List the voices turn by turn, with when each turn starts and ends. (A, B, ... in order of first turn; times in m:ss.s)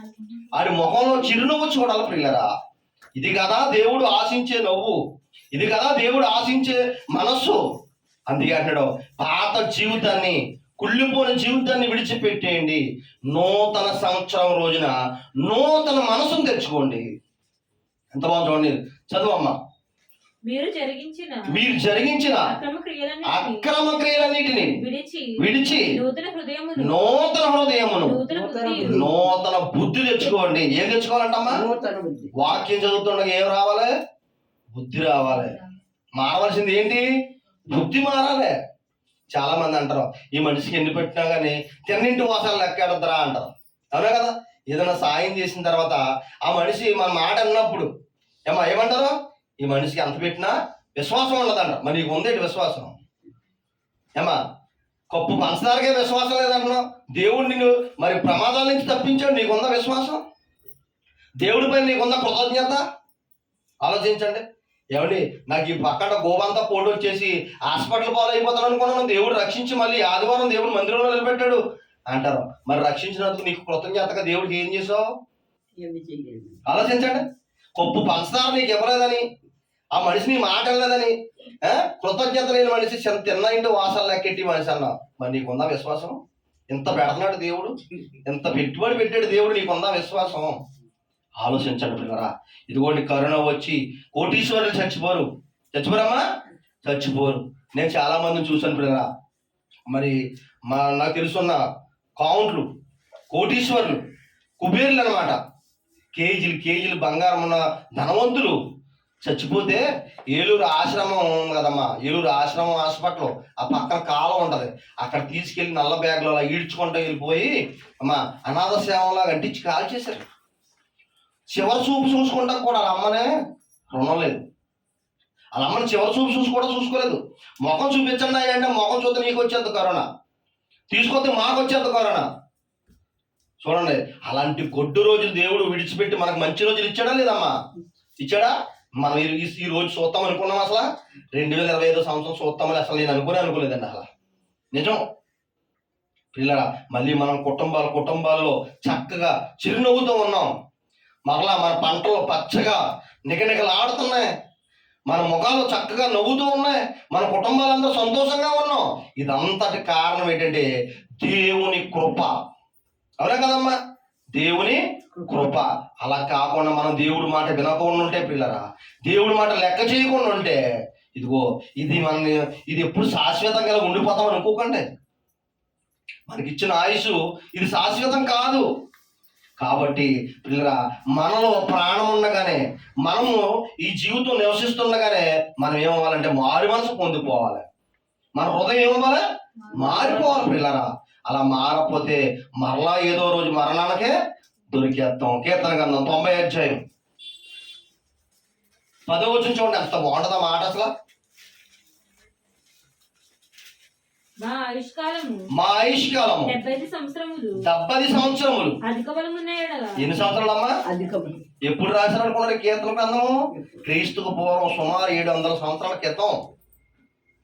0:00.5-0:02.5 A
0:03.2-0:05.0 A
0:05.5-0:07.6 A
0:08.3-0:17.1 A
0:18.1-0:19.6 A
0:20.4-0:21.5 B
0:21.5-0:22.5 A
0:22.3-0:23.6 B
0:23.2-0:24.8 A
0:24.6-0:27.2 B
0:25.4-0:25.9 A
0:26.8-0:28.2 A
0:28.0-0:29.0 B
0:28.3-0:29.3 C
0:28.8-0:31.6 A
0:31.5-0:32.3 C
0:32.4-0:33.9 A
0:34.7-0:35.6 A
0:36.2-0:37.0 A
0:37.7-0:38.5 A
0:39.3-0:47.9 A
0:48.5-0:53.0 A
0:55.1-1:00.2 A
1:01.4-1:02.8 A
1:03.8-1:15.1 A
1:15.8-1:16.6 C
1:16.6-1:17.2 A
1:17.8-1:19.2 A
1:19.9-1:27.7 A
1:28.2-1:30.6 A
1:31.4-1:36.2 A
1:36.8-1:39.0 A
1:39.9-1:41.6 A
1:42.2-1:42.7 A
1:43.3-1:44.0 A
1:44.6-1:45.4 A
1:46.2-1:48.6 A
1:49.2-2:00.2 A
2:01.5-2:03.3 A
2:03.9-2:04.4 A
2:05.6-2:10.0 A
2:10.9-2:12.2 A
2:13.6-2:17.5 A
2:18.2-2:24.0 A
2:24.7-2:25.0 A
2:26.3-2:30.5 A
2:31.3-2:34.3 A
2:35.1-2:40.7 A
2:41.2-2:42.3 A
2:43.2-2:43.8 A
2:44.3-2:50.6 A
2:51.2-2:54.8 A
2:56.3-2:58.6 A
2:59.6-3:07.6 A
3:08.4-3:14.1 A
3:09.7-3:10.5 B
3:14.7-3:16.8 A
3:19.1-3:20.9 A
3:24.4-3:25.5 B
3:25.5-3:26.5 A
3:26.4-3:27.6 B
3:27.6-3:28.8 A
3:28.8-3:30.0 B
3:30.0-3:30.7 A
3:30.8-3:31.4 C
3:31.6-3:36.4 A
3:33.5-3:33.8 C